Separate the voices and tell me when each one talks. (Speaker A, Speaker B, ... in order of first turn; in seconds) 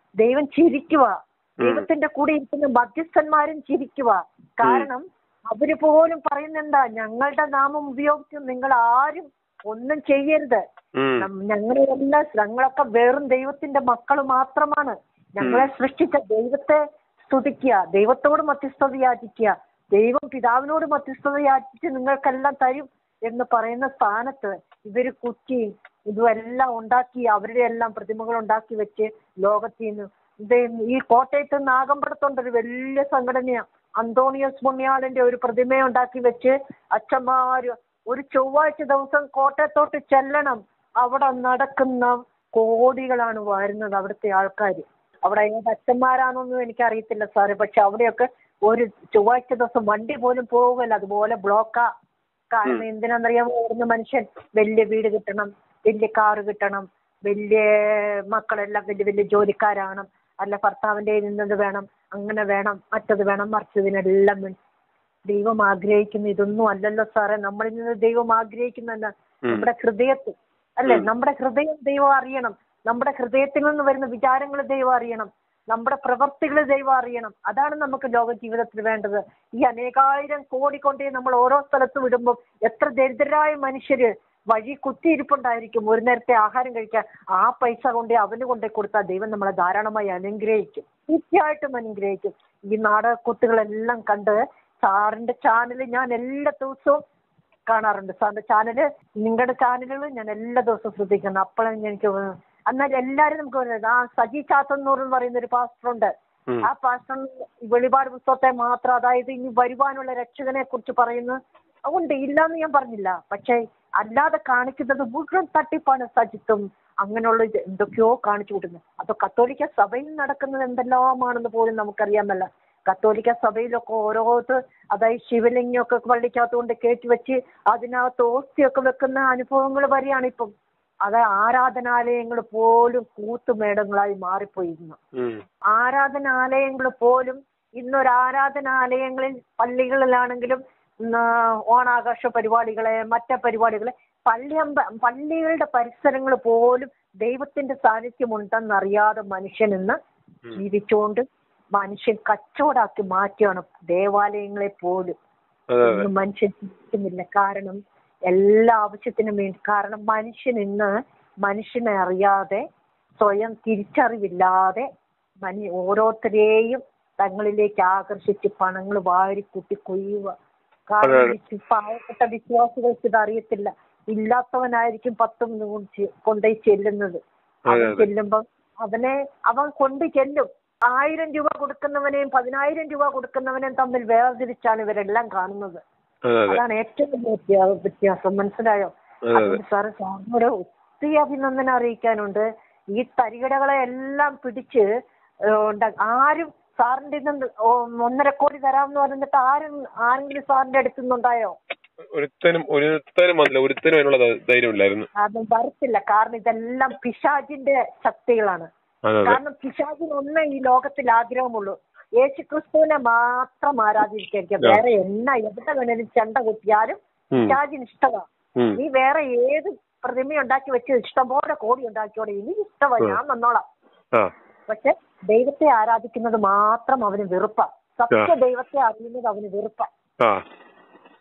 Speaker A: 0.2-10.6, 11.2-51.9, 52.5-64.6, 65.3-97.0, 97.7-106.1, 106.6-130.5, 131.0-135.0, 135.7-150.0, 150.6-155.1, 155.8-160.9, 161.4-162.6, 163.2-164.9, 165.4-170.3, 170.9-185.8, 186.5-194.9, 195.5-201.6, 205.2-208.7, 209.2-223.6, 224.7-229.9
Speaker B: 1.6-1.9, 11.0-11.3, 15.4-15.7, 155.7-156.1, 171.0-171.3, 177.7-178.1, 186.3-186.6, 189.3-189.6, 202.1-205.1, 209.1-209.4